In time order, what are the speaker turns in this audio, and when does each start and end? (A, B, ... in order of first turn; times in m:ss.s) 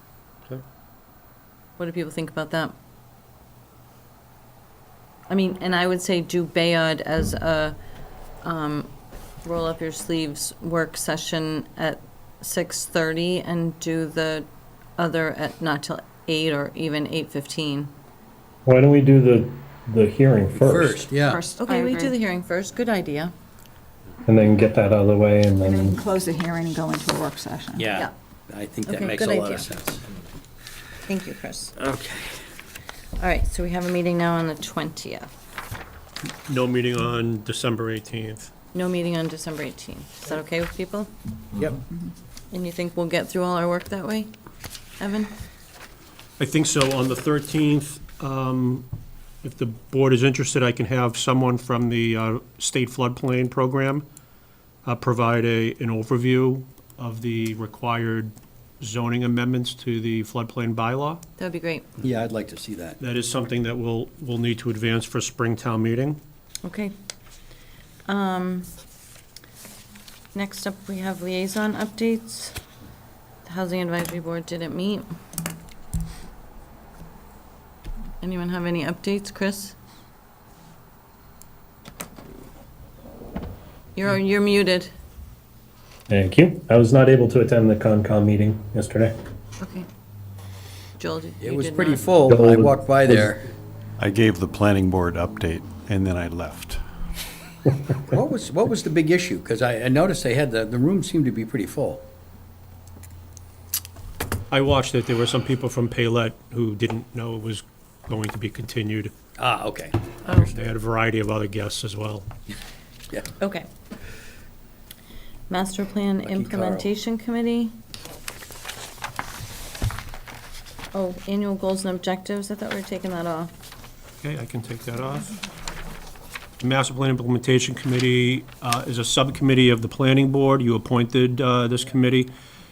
0:01.8-0:02.7 A
0:05.3-0:07.8 A
0:08.4-0:08.9 A
0:09.4-0:14.5 A
0:15.0-0:17.9 A
0:18.6-0:21.1 B
0:20.5-0:21.4 C
0:21.2-0:22.1 D
0:21.6-0:23.3 A
0:24.2-0:26.0 B
0:25.6-0:27.9 D
0:27.8-0:30.0 C
0:28.8-0:29.7 A
0:31.1-0:31.8 A
0:31.8-0:32.4 C
0:33.2-0:35.3 A
0:36.4-0:38.5 E
0:38.7-0:41.1 A
0:42.5-0:44.3 A
0:45.0-0:45.3 A
0:46.4-0:48.9 E
0:49.4-0:54.0 E
0:54.8-1:01.2 E
1:01.4-1:01.9 A
1:02.0-1:03.0 C
1:03.0-1:06.2 E
1:06.6-1:06.9 A
1:08.1-1:08.7 A
1:10.3-1:12.6 A
1:13.4-1:15.1 A
1:18.2-1:19.8 A
1:23.9-1:24.9 A
1:26.1-1:29.2 B
1:29.6-1:29.8 A
1:31.0-1:32.0 A
1:31.4-1:33.5 C
1:32.3-1:33.3 B
1:34.0-1:36.8 F
1:38.0-1:42.0 C
1:44.5-1:49.1 E
1:49.4-1:50.0 C
1:50.2-1:50.5 A
1:50.4-1:52.3 E
1:53.4-1:53.7 A
1:55.5-1:57.7 A
1:56.2-1:56.9 C
2:00.9-2:03.5 A
2:04.2-2:05.3 E
2:06.6-2:12.3 E